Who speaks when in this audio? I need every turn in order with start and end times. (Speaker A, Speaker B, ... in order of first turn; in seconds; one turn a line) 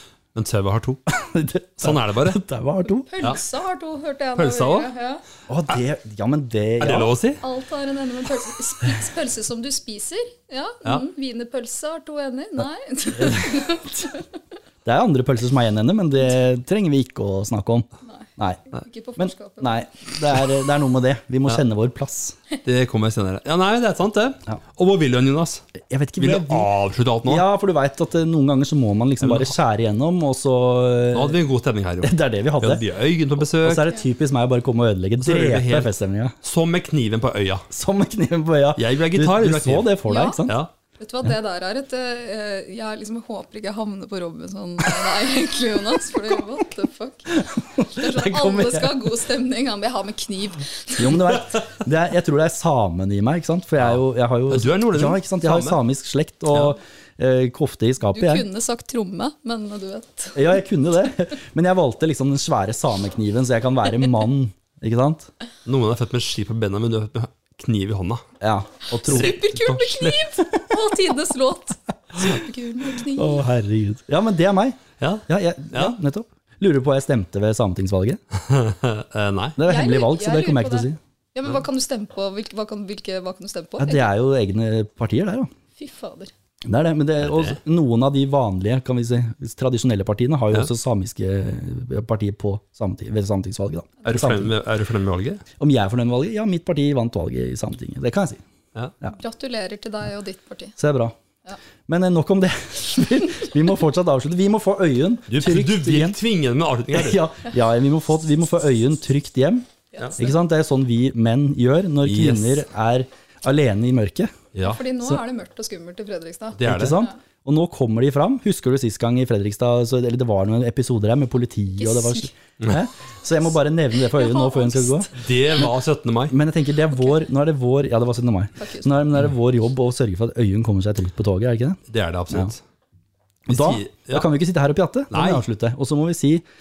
Speaker A: 0.3-1.0
Speaker B: 1.1-3.1
Speaker A: 1.8-2.4
Speaker C: 3.0-5.2
Speaker A: 4.4-4.9
Speaker B: 5.5-7.1
Speaker A: 6.8-7.4
Speaker C: 7.4-14.3
Speaker B: 13.2-13.5
Speaker B: 14.8-18.6
Speaker C: 18.0-19.9
Speaker B: 19.2-22.4
Speaker A: 22.6-25.6
Speaker B: 25.8-26.7
Speaker A: 26.2-27.5
Speaker B: 27.2-31.4
Speaker A: 29.2-29.5
Speaker A: 31.1-33.9
Speaker B: 32.0-32.8
Speaker B: 33.6-36.3
Speaker A: 35.2-37.7
Speaker B: 37.7-40.6
Speaker A: 38.8-40.7
Speaker C: 40.0-40.4
Speaker C: 41.0-51.4
Speaker B: 47.3-49.1
Speaker B: 51.0-58.4
Speaker A: 53.8-55.8
Speaker C: 58.1-60.6
Speaker B: 60.3-65.3
Speaker A: 65.7-68.2
Speaker B: 68.4-69.5
Speaker C: 68.9-73.4
Speaker A: 69.1-70.2
Speaker B: 73.1-78.2
Speaker A: 75.0-75.9
Speaker A: 78.3-79.6
Speaker B: 79.6-81.0
Speaker C: 79.6-84.1
Speaker B: 83.8-85.5
Speaker C: 85.8-86.3
Speaker B: 86.6-94.5
Speaker A: 87.2-87.6
Speaker A: 94.0-95.4
Speaker B: 95.6-98.4
Speaker C: 99.2-100.7
Speaker B: 100.8-101.1
Speaker B: 101.9-106.2
Speaker A: 105.3-107.2
Speaker B: 106.9-109.7
Speaker C: 109.9-110.3
Speaker B: 110.2-114.3
Speaker A: 112.0-112.6
Speaker A: 114.5-114.8
Speaker C: 114.6-117.1
Speaker A: 116.6-117.1
Speaker B: 116.6-125.1
Speaker C: 121.8-122.3
Speaker C: 124.1-125.1
Speaker A: 125.1-126.3
Speaker B: 126.3-132.5
Speaker C: 128.6-129.1
Speaker A: 131.9-132.6
Speaker B: 133.5-136.4
Speaker A: 133.5-134.3
Speaker A: 135.1-135.4